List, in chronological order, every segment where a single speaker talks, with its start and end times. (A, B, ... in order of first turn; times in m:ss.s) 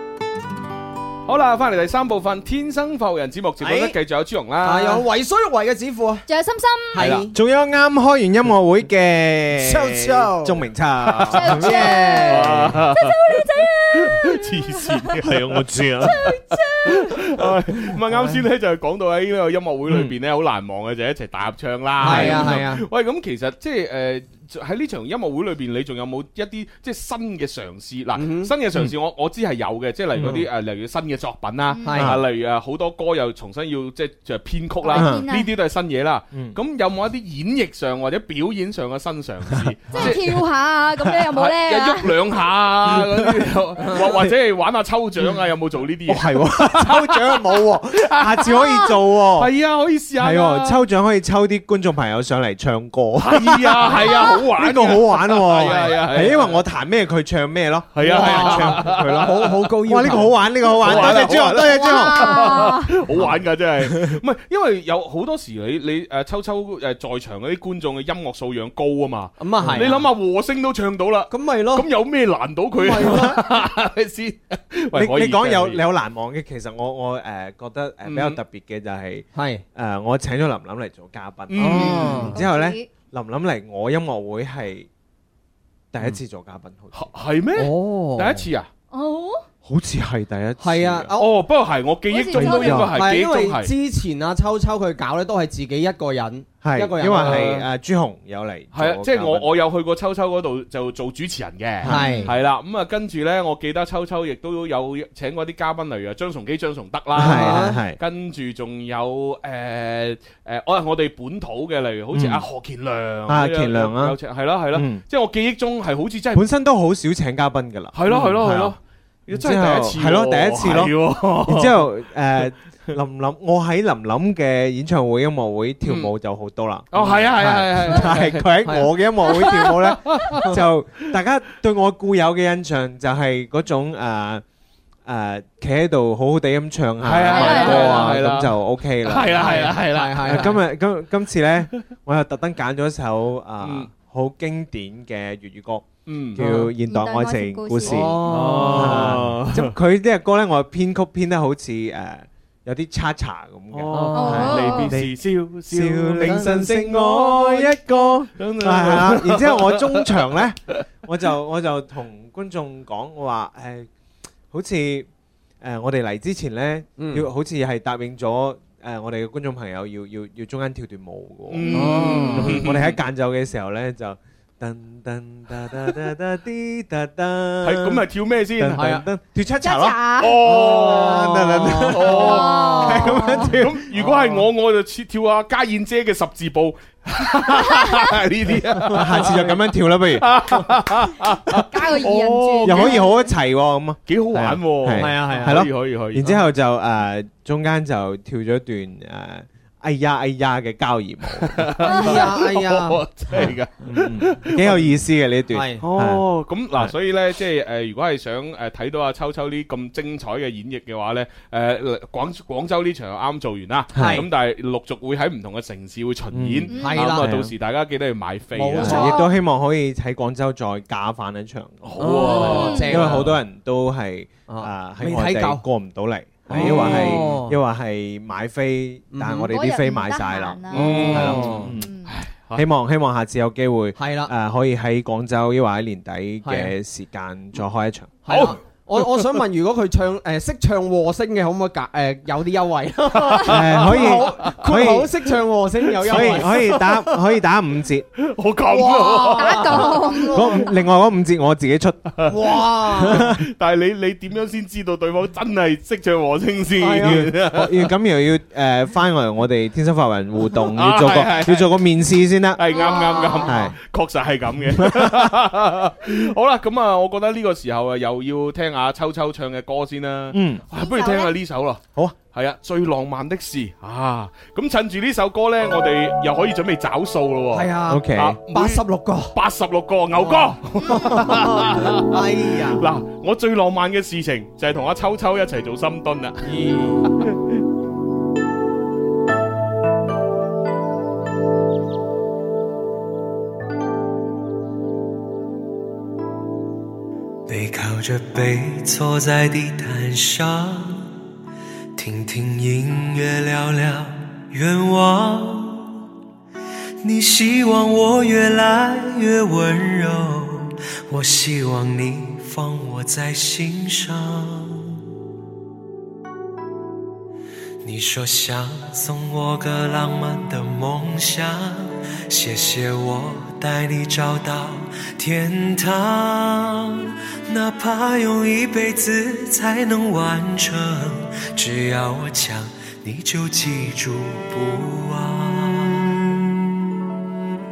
0:01.2-0:05.0 A
0:03.6-0:03.9 B
0:04.6-0:06.2 B
0:06.3-0:07.0 C
0:06.9-0:07.4 B
0:07.0-0:07.3 A
0:07.3-0:12.8 D
0:09.5-0:10.7 B
0:11.0-0:11.6 A
0:11.3-0:15.1 C
0:11.4-0:12.5 B
0:12.2-0:40.2 A
0:15.2-0:16.2 D
0:16.0-0:17.2 C
0:18.1-0:18.4 B
0:19.9-0:20.1 D
0:22.0-0:22.8 B
0:22.0-0:22.6 D
0:28.1-0:28.5 B
0:30.1-0:30.5 D
0:31.7-0:32.0 C
0:31.8-0:32.2 B
0:31.9-0:32.2 D
0:34.8-0:35.5 C
0:35.0-0:35.2 D
0:36.3-0:36.6 D
0:39.5-0:40.2 D
0:39.9-0:42.1 C
0:41.3-0:50.8 A
0:42.8-0:44.3 D
0:46.0-0:49.5 D
0:50.2-1:04.2 D
0:53.2-0:56.6 A
0:54.0-0:54.4 C
0:57.9-0:59.4 A
0:58.0-1:01.5 B
1:00.8-1:15.8 A
1:01.6-1:02.9 C
1:09.4-1:10.1 B
1:09.6-1:09.9 D
1:11.3-1:11.9 B
1:12.8-1:13.4 B
1:14.9-1:24.9 D
1:18.0-1:18.4 A
1:19.3-1:19.6 B
1:21.5-1:22.3 A
1:21.6-1:22.4 B
1:22.3-1:22.9 C
1:25.9-1:27.1 D
1:26.9-1:28.7 A
1:27.6-1:28.5 B
1:28.9-1:29.4 C
1:29.6-1:31.1 D
1:30.6-1:31.3 B
1:31.2-1:33.7 A
1:32.1-1:32.8 C
1:32.4-1:37.6 B
1:32.4-1:32.9 D
1:36.6-1:39.5 D
1:37.2-1:37.6 A
1:38.7-1:56.4 A
1:41.8-1:42.1 D
1:41.8-1:42.3 B
1:41.9-1:42.3 C
1:47.1-1:48.0 D
1:47.2-1:47.8 B
1:52.1-1:52.4 D
1:53.3-1:54.2 D
1:54.7-1:55.0 D
1:56.3-1:58.8 D
1:57.9-2:01.9 A
1:59.3-2:14.4 D
2:05.8-2:06.1 A
2:06.9-2:08.5 A
2:08.6-2:09.5 B
2:09.3-2:10.4 A
2:15.0-2:43.9 D
2:17.0-2:20.6 A
2:17.3-2:18.1 C
2:19.3-2:20.6 B
2:23.6-2:23.9 A
2:26.0-2:26.4 A
2:26.4-2:26.7 B
2:26.8-2:28.1 C
2:27.8-2:29.2 B
2:28.2-2:29.7 A
2:33.7-2:37.8 A
2:33.9-2:34.4 B
2:34.1-2:34.9 C
2:38.4-2:40.4 A
2:44.5-2:45.1 D
2:45.6-2:58.0 D
2:46.9-2:47.3 B
2:51.5-2:53.0 A
2:51.6-2:52.4 C
2:51.7-2:52.6 B
2:57.6-2:58.9 A
2:58.6-3:04.1 D
2:58.7-2:59.0 B
2:59.6-3:00.4 C
3:00.2-3:09.5 A
3:00.4-3:03.2 B
3:02.1-3:03.5 C
3:04.0-3:04.4 B
3:08.9-3:10.4 D
3:09.1-3:09.6 B
3:10.1-3:13.1 A
3:11.6-3:13.2 C
3:12.6-3:21.8 D
3:14.1-3:16.3 A
3:15.0-3:15.6 B
3:21.4-3:24.9 A
3:21.8-3:23.5 B
3:23.8-3:26.9 D
3:25.5-3:25.8 B
3:25.8-3:39.0 A
3:33.9-3:34.2 D
3:34.0-3:34.2 B
3:36.3-3:37.5 D
3:36.7-3:37.0 C
3:36.7-3:37.3 B
3:38.6-3:39.2 B
3:38.8-3:51.9 D
3:38.8-3:39.3 C
3:41.8-3:43.2 A
3:42.0-3:43.4 B
3:42.3-3:42.9 C
3:44.5-3:45.6 B
3:46.4-3:47.6 B
3:46.5-3:47.3 A
3:49.1-3:49.5 B
3:49.5-3:51.2 C
3:50.7-3:52.6 A
3:50.8-3:51.7 B
3:51.8-3:52.1 C
3:52.5-3:58.4 D
3:54.0-3:54.3 B
3:56.4-3:56.7 B
3:58.2-4:07.2 B
3:58.3-3:59.4 A
4:03.1-4:04.5 A
4:03.4-4:05.2 D
4:06.0-4:06.7 A
4:06.0-4:08.1 D
4:08.2-4:10.0 A
4:08.7-4:10.7 B
4:08.8-4:10.7 C
4:10.3-4:12.2 D
4:12.2-4:13.3 B
4:13.0-4:13.4 D
4:13.0-4:17.9 A
4:16.8-4:17.3 B
4:17.0-4:22.8 D
4:20.5-4:21.8 A
4:22.5-4:46.5 A
4:22.7-4:23.5 C
4:23.4-4:23.7 D
4:24.7-4:25.3 D
4:30.3-4:30.6 D
4:30.8-4:31.3 C
4:37.5-4:39.3 B
4:37.9-4:38.4 D
4:40.2-4:42.8 B
4:46.4-4:47.1 B
4:47.0-4:47.4 A
4:57.5-5:01.1 E
5:01.9-5:06.0 E
5:07.0-5:15.0 E
5:17.8-5:36.7 E